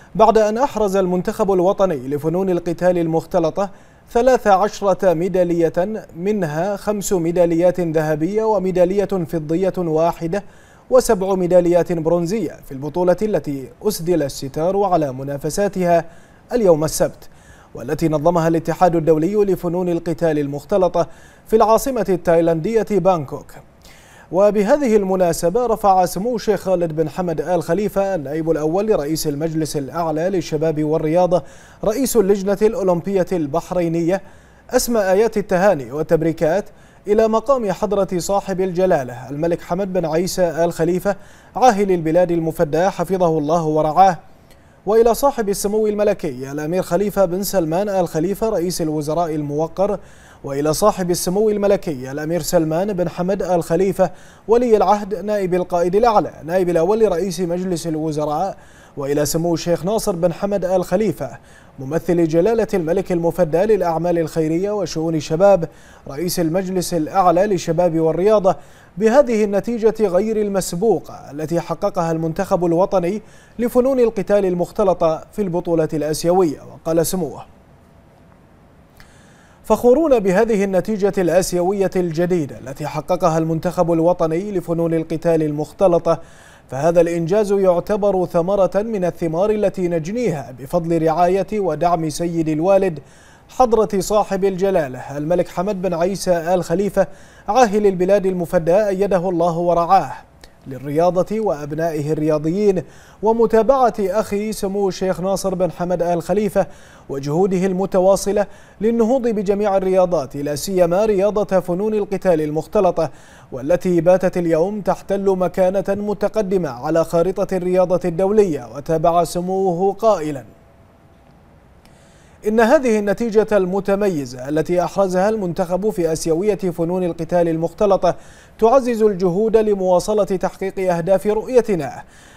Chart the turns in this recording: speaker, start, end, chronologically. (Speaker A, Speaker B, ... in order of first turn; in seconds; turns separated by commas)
Speaker A: 0.2-23.6, Speaker A: 24.3-34.2, Speaker A: 34.7-44.2, Speaker A: 44.9-77.5, Speaker A: 79.7-120.5, Speaker A: 122.5-132.0